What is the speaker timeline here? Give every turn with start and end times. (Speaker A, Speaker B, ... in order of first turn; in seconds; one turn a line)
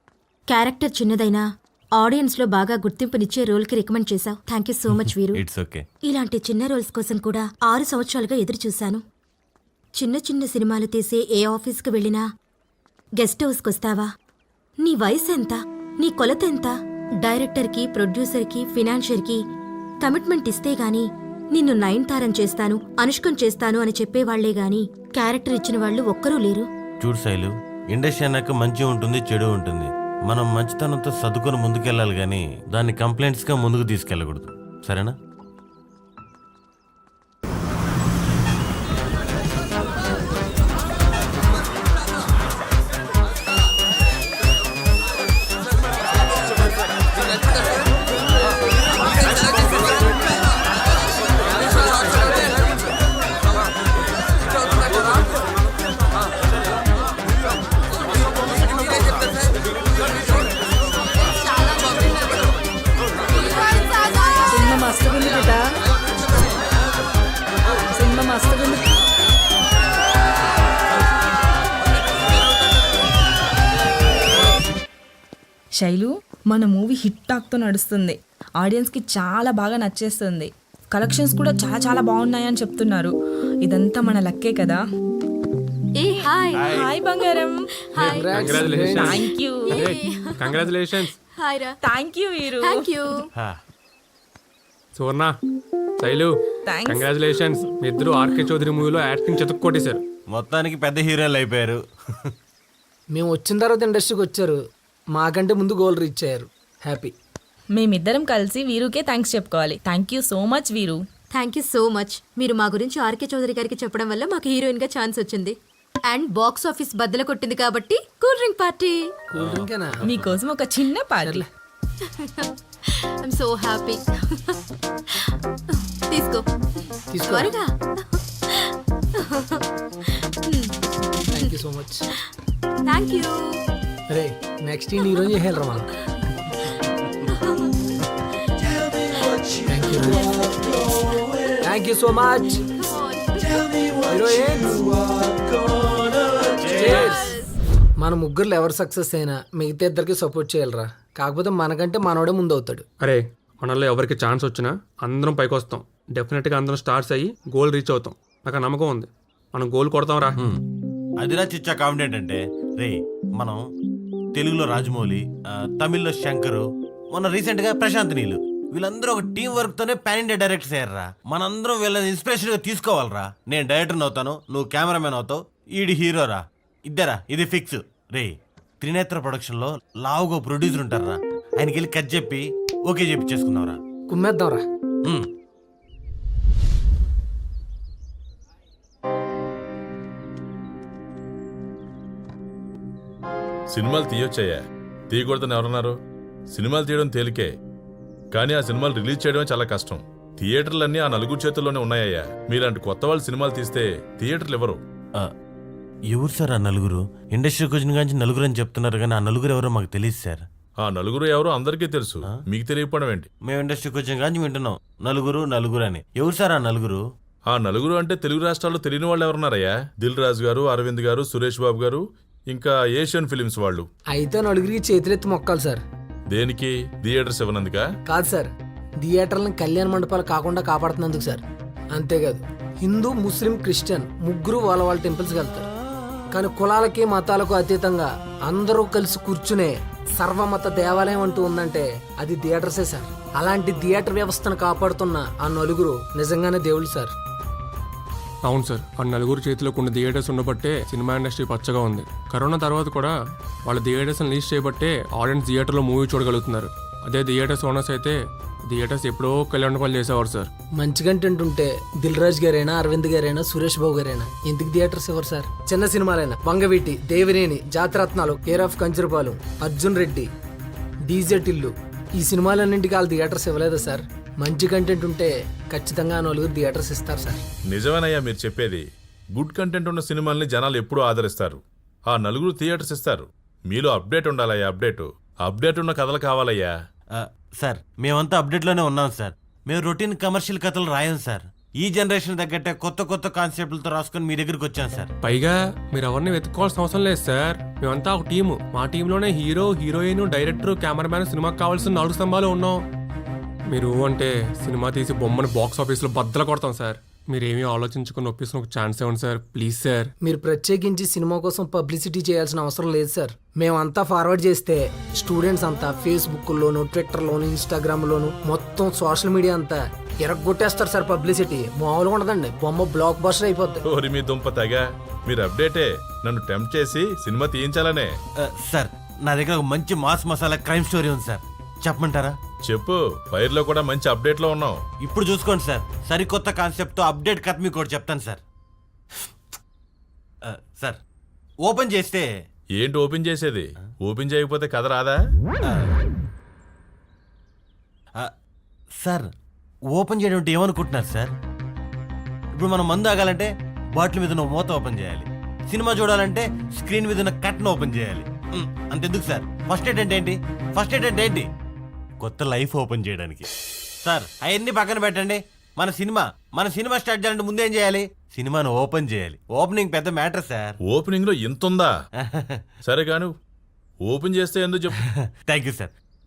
Speaker A: 0.5-1.4
Speaker A: 2.0-5.4
Speaker B: 4.9-5.8
Speaker A: 6.0-9.0
Speaker A: 10.0-12.2
Speaker A: 13.2-14.1
Speaker A: 14.8-19.4
Speaker A: 20.0-26.7
Speaker B: 27.0-35.1
Speaker A: 61.5-62.1
Speaker A: 63.3-64.8
Speaker C: 64.5-65.6
Speaker C: 67.9-68.9
Speaker C: 75.8-84.8
Speaker A: 86.0-86.7
Speaker C: 86.1-87.7
Speaker B: 86.6-86.9
Speaker A: 87.9-88.4
Speaker D: 88.0-89.2
Speaker E: 88.3-91.1
Speaker C: 89.0-89.8
Speaker A: 89.7-91.8
Speaker C: 91.8-93.0
Speaker A: 92.5-93.3
Speaker E: 95.0-95.3
Speaker E: 96.0-100.0
Speaker C: 96.7-97.7
Speaker B: 100.3-101.8
Speaker D: 103.1-104.6
Speaker D: 105.1-107.1
Speaker C: 107.7-111.0
Speaker A: 111.3-115.6
Speaker A: 116.1-119.2
Speaker D: 119.3-120.1
Speaker B: 119.3-120.4
Speaker C: 120.0-121.4
Speaker D: 121.2-121.4
Speaker A: 122.1-124.5
Speaker A: 125.7-126.4
Speaker D: 127.1-127.5
Speaker A: 127.2-127.8
Speaker A: 128.5-129.6
Speaker A: 130.4-130.7
Speaker D: 131.3-132.1
Speaker A: 132.8-133.6
Speaker D: 134.1-135.9
Speaker A: 137.3-137.7
Speaker D: 139.7-140.4
Speaker A: 140.4-141.0
Speaker D: 141.6-142.6
Speaker A: 142.8-143.7
Speaker D: 144.1-144.9
Speaker B: 146.6-147.1
Speaker D: 146.6-147.2
Speaker A: 146.9-147.5
Speaker D: 148.0-152.8
Speaker E: 153.0-160.4
Speaker B: 161.2-163.6
Speaker B: 164.3-183.8
Speaker D: 184.1-184.6
Speaker F: 193.7-196.0
Speaker F: 196.5-197.5
Speaker F: 198.3-204.8
Speaker B: 206.1-210.4
Speaker F: 210.8-213.3
Speaker B: 213.5-217.0
Speaker F: 217.5-223.9
Speaker D: 224.1-225.8
Speaker F: 226.3-227.8
Speaker D: 228.1-231.4
Speaker D: 231.9-235.7
Speaker D: 236.3-247.1
Speaker E: 248.4-253.1
Speaker E: 253.7-258.2
Speaker E: 258.7-260.5
Speaker D: 260.8-270.3
Speaker D: 271.1-277.4
Speaker F: 277.7-286.7
Speaker B: 287.2-295.1
Speaker E: 295.2-302.8
Speaker E: 303.7-310.1
Speaker D: 310.2-323.8
Speaker F: 323.9-328.1
Speaker B: 328.4-332.4
Speaker F: 332.7-334.8
Speaker B: 335.0-338.4
Speaker B: 340.4-341.0
Speaker B: 341.6-342.3
Speaker F: 342.8-345.2
Speaker B: 345.6-345.9
Speaker B: 349.0-349.3
Speaker B: 349.9-351.3
Speaker B: 352.6-361.5
Speaker B: 362.2-363.5
Speaker B: 364.0-370.8
Speaker F: 370.8-371.9
Speaker B: 372.2-372.6
Speaker F: 372.8-373.3
Speaker F: 374.0-375.0
Speaker B: 375.4-375.9